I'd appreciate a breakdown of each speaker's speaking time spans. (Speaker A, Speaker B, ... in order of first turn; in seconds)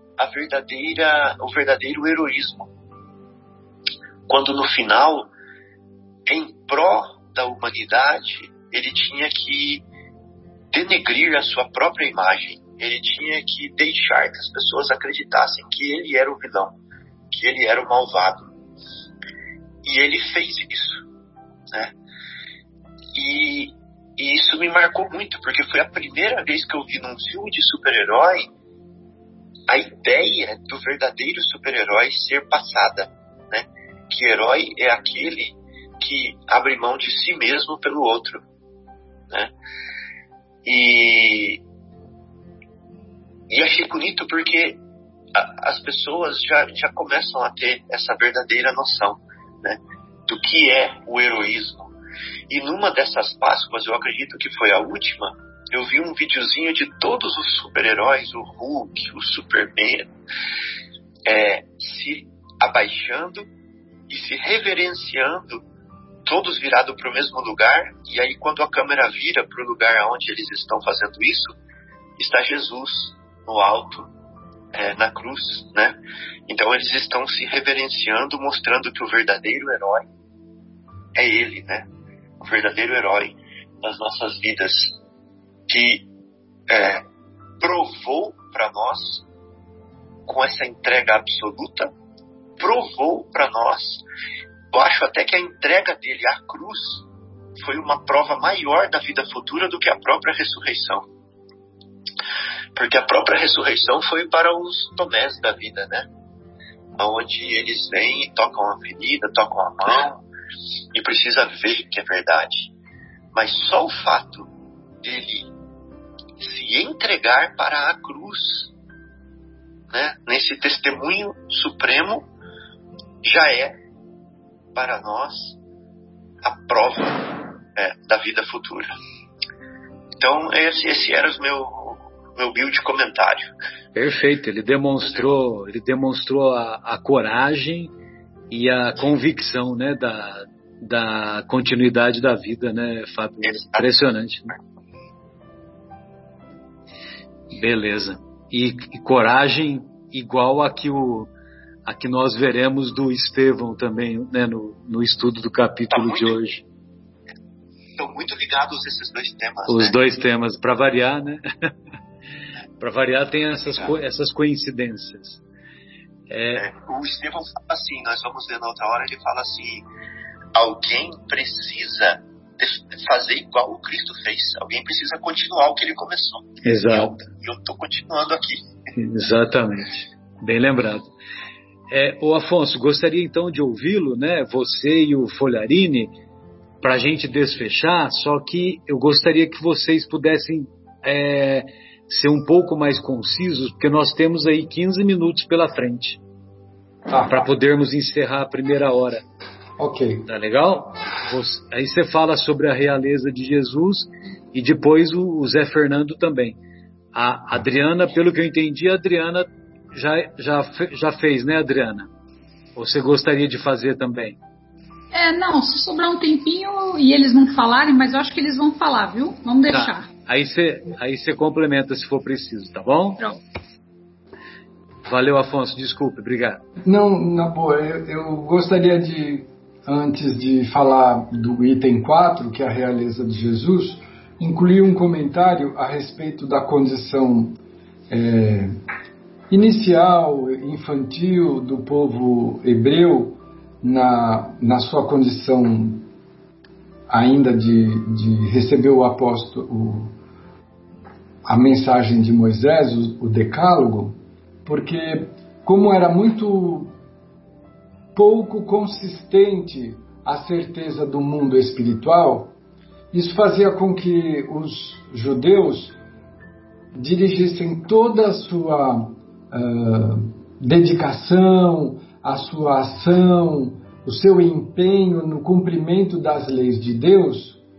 Speaker A: 0.2-2.7, 4.3-5.3, 6.3-9.8, 10.7-16.8, 17.3-18.5, 19.8-21.0, 23.1-28.5, 29.7-38.4, 40.7-41.6, 43.5-44.8, 45.3-51.9, 52.5-60.1, 61.3-63.5, 64.1-65.6, 66.2-71.5, 72.2-74.1, 74.7-76.0, 76.5-80.1, 81.2-81.9, 82.4-85.0, 85.7-86.1, 86.7-87.0, 87.6-89.2, 90.3-91.9, 92.6-94.0, 94.7-97.0, 97.6-101.1, 102.8-106.1, 107.0-110.2, 110.9-112.7, 113.3-114.5, 115.0-115.5, 116.4-118.7, 119.9-122.3, 123.2-123.8, 124.8-125.6, 126.4-128.9, 130.2-133.5, 143.4-143.9, 155.9-156.3, 158.0-160.0, 166.6-169.9, 170.6-178.6
Speaker B: 133.9-137.9, 138.5-144.5, 147.5-151.3, 151.9-156.6, 159.7-161.4, 162.8-165.4, 166.3-166.7, 176.6-177.3, 178.9-181.1, 181.9-186.1, 186.8-196.2, 197.3-199.2, 200.3-206.6, 207.1-212.1, 212.8-214.4, 219.7-223.3, 225.1-226.6
Speaker C: 197.1-197.5, 199.8-200.3, 226.8-237.6, 238.1-238.8, 239.5-246.1, 247.1-250.1, 251.4-257.0, 258.1-262.5, 263.1-266.0, 266.9-277.6
Speaker D: 215.1-220.1